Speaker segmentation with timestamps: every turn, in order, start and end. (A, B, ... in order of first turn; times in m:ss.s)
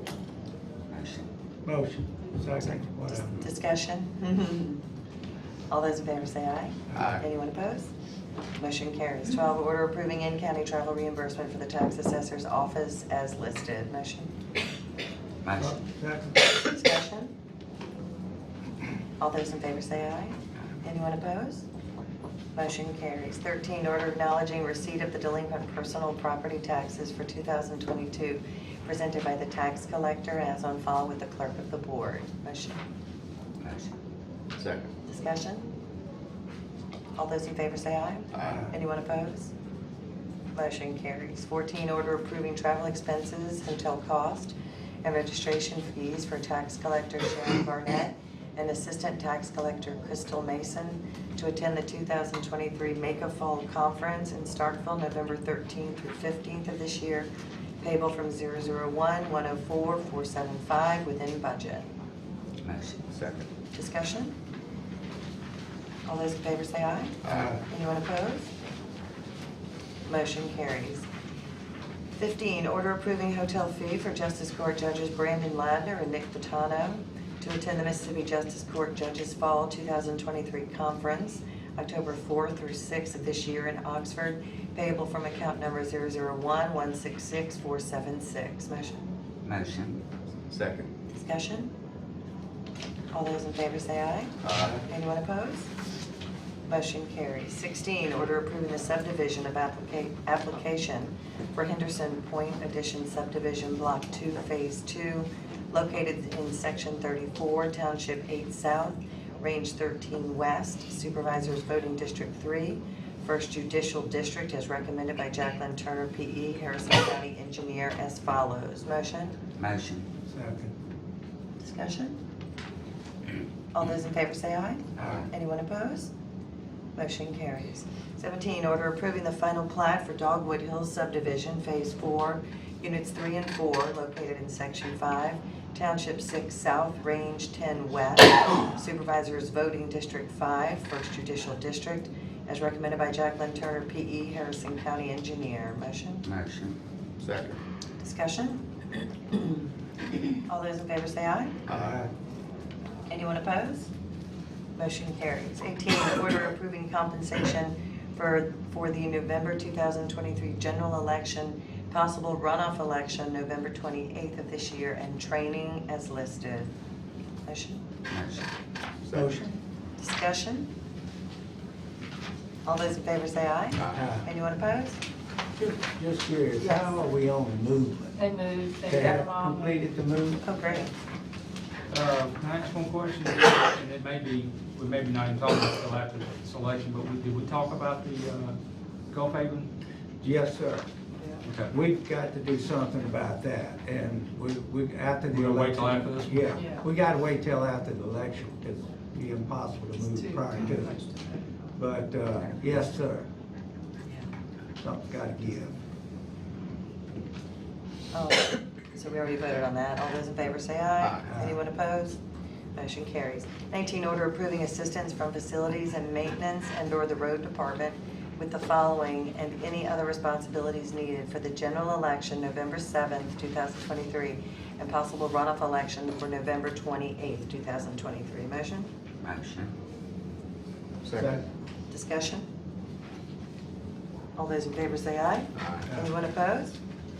0:00.9-0:01.3 A
0:01.6-0:03.4 B
0:03.1-0:04.8 C
0:05.7-0:07.9 C
0:06.9-0:07.2 D
0:08.6-0:14.3 C
0:15.4-0:15.8 A
0:15.6-0:16.5 B
0:16.6-0:17.3 C
0:19.2-0:21.6 C
0:22.6-0:32.8 C
0:33.6-0:33.9 A
0:34.6-0:34.9 D
0:35.1-0:35.7 C
0:37.2-0:39.5 C
0:38.3-0:38.6 D
0:38.4-0:38.7 B
0:40.5-0:57.3 C
0:57.8-1:01.9 C
1:02.6-1:03.1 A
1:03.1-1:03.5 D
1:03.7-1:04.3 C
1:06.0-1:08.5 C
1:07.2-1:07.6 D
1:07.3-1:07.6 B
1:10.1-1:11.1 C
1:12.2-1:29.1 C
1:29.4-1:30.0 A
1:30.5-1:30.9 D
1:31.1-1:31.7 C
1:33.1-1:35.7 C
1:34.4-1:34.8 D
1:36.7-1:59.4 C
1:59.6-2:00.0 A
2:00.3-2:00.7 B
2:01.6-2:02.2 C
2:03.7-2:06.1 C
2:07.0-2:26.2 C
2:26.2-2:26.8 A
2:27.2-2:27.6 D
2:28.0-2:28.6 C
2:30.4-2:31.6 C
2:31.7-2:32.0 D
2:31.7-2:32.1 B
2:33.1-2:33.9 C
2:34.8-2:46.7 C
2:47.4-2:47.8 C
2:48.1-2:48.4 A
2:49.0-2:49.4 D
2:49.1-2:49.6 B
2:50.0-2:50.7 C
2:52.6-2:55.0 C
2:53.9-2:54.3 B
2:55.6-2:58.1 B
2:56.6-2:56.9 E
2:58.2-2:59.9 E
2:58.8-3:00.4 B
3:00.4-3:00.9 C
3:01.9-3:08.6 F
3:09.1-3:09.7 F
3:10.2-3:10.8 B
3:11.4-3:11.7 F
3:11.7-3:21.0 B
3:15.3-3:16.6 F
3:16.5-3:16.8 E
3:20.0-3:21.7 E
3:21.8-3:23.3 B
3:24.8-3:25.8 B
3:28.1-3:32.2 C
3:31.3-3:31.6 B
3:32.7-3:48.9 C
3:49.2-3:49.7 A
3:51.0-3:51.4 D
3:51.2-3:51.4 B
3:51.9-3:52.5 C
3:54.4-3:56.8 C
3:55.6-3:55.8 D